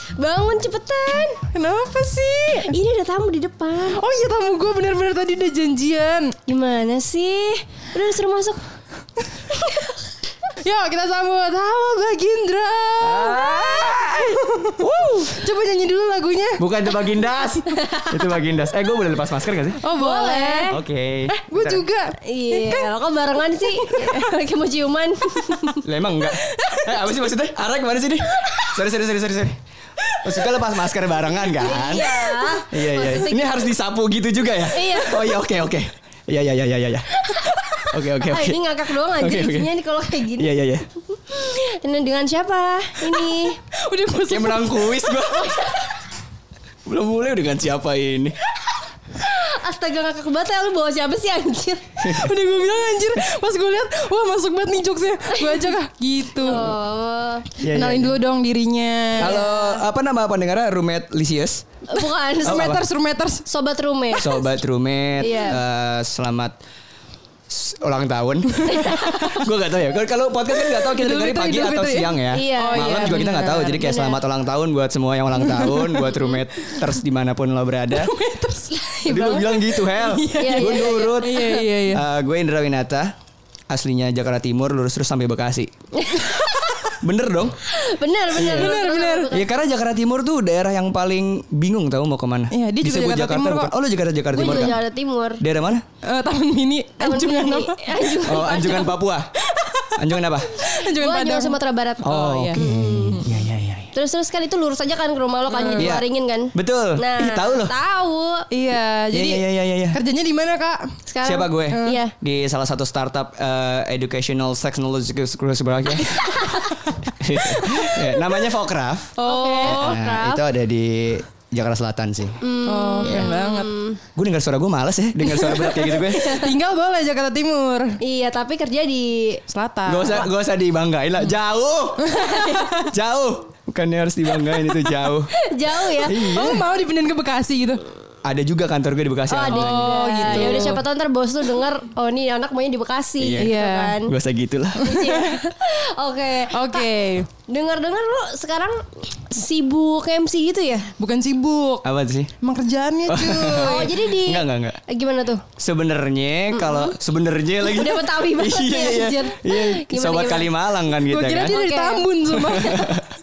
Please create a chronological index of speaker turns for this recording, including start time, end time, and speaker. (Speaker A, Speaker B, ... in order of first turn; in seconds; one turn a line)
Speaker A: 0.1-1.4
Speaker B: 1.5-2.7
Speaker A: 2.6-4.0
Speaker B: 3.9-6.3
Speaker A: 6.5-8.6
Speaker A: 9.5-9.9
Speaker B: 10.6-16.6
Speaker C: 13.0-15.2
Speaker A: 13.3-13.9
Speaker C: 16.6-19.8
Speaker B: 19.8-22.9
Speaker A: 19.9-20.7
Speaker C: 20.7-21.9
Speaker A: 22.2-25.8
Speaker B: 23.5-24.4
Speaker C: 25.8-29.6
Speaker B: 26.4-27.0
Speaker B: 30.1-30.4
Speaker C: 30.2-37.3
Speaker A: 31.6-33.5
Speaker A: 34.7-35.3
Speaker C: 37.9-39.7
Speaker A: 38.2-40.5
Speaker C: 40.4-40.9
Speaker A: 41.1-43.6
Speaker B: 43.0-45.8
Speaker C: 44.3-45.9
Speaker A: 45.6-45.9
Speaker C: 46.9-48.3
Speaker A: 49.2-51.9
Speaker C: 52.0-52.3
Speaker B: 52.0-56.8
Speaker A: 55.3-55.7
Speaker A: 56.4-57.5
Speaker C: 57.6-58.2
Speaker B: 57.7-59.5
Speaker C: 59.2-61.6
Speaker A: 59.2-59.8
Speaker A: 61.9-62.8
Speaker B: 62.3-63.5
Speaker C: 62.4-62.8
Speaker A: 63.5-64.4
Speaker C: 64.2-66.5
Speaker A: 65.2-65.6
Speaker C: 67.5-78.1
Speaker B: 68.6-69.4
Speaker A: 68.6-69.4
Speaker B: 70.5-73.8
Speaker A: 72.3-74.2
Speaker B: 75.5-76.2
Speaker B: 77.9-82.0
Speaker A: 78.9-79.6
Speaker C: 79.1-83.1
Speaker A: 80.3-81.6
Speaker C: 83.7-85.7
Speaker A: 85.9-86.9
Speaker B: 86.2-86.9
Speaker C: 87.0-87.6
Speaker A: 87.7-89.4
Speaker C: 88.3-88.7
Speaker B: 88.4-89.3
Speaker C: 89.3-94.8
Speaker B: 92.5-93.7
Speaker A: 94.3-95.4
Speaker C: 95.4-95.8
Speaker B: 96.0-98.7
Speaker A: 97.0-98.9
Speaker C: 98.2-99.3
Speaker B: 99.4-102.6
Speaker C: 100.0-100.6
Speaker A: 100.6-103.2
Speaker C: 102.0-103.9
Speaker A: 103.9-108.5
Speaker B: 105.5-106.0
Speaker C: 105.8-107.7
Speaker B: 108.5-111.0
Speaker C: 109.1-110.0
Speaker A: 111.1-112.1
Speaker C: 111.2-116.3
Speaker B: 111.7-112.0
Speaker A: 116.2-116.7
Speaker C: 117.1-122.4
Speaker B: 117.5-118.1
Speaker B: 119.2-120.0
Speaker A: 119.2-120.4
Speaker A: 122.4-124.0
Speaker B: 122.7-123.7
Speaker C: 123.0-123.3
Speaker C: 124.2-126.3
Speaker A: 125.2-126.5
Speaker B: 125.5-128.0
Speaker A: 128.0-129.4
Speaker B: 129.5-130.2
Speaker C: 129.8-135.3
Speaker B: 132.0-132.9
Speaker A: 132.1-132.7
Speaker A: 135.3-136.3
Speaker C: 136.0-136.7
Speaker B: 136.1-137.8
Speaker C: 138.2-140.8
Speaker A: 139.3-144.1
Speaker B: 139.5-140.8
Speaker C: 143.2-144.9
Speaker B: 143.4-144.0
Speaker A: 144.8-146.9
Speaker B: 144.8-145.4
Speaker B: 146.5-147.3
Speaker A: 147.5-150.9
Speaker B: 150.9-151.8
Speaker C: 151.8-152.3
Speaker B: 152.4-153.9
Speaker C: 153.1-154.8
Speaker A: 153.6-155.4
Speaker C: 155.6-161.5
Speaker A: 156.5-156.9
Speaker A: 157.6-160.5
Speaker B: 161.1-163.0
Speaker A: 161.4-162.1
Speaker C: 162.3-163.1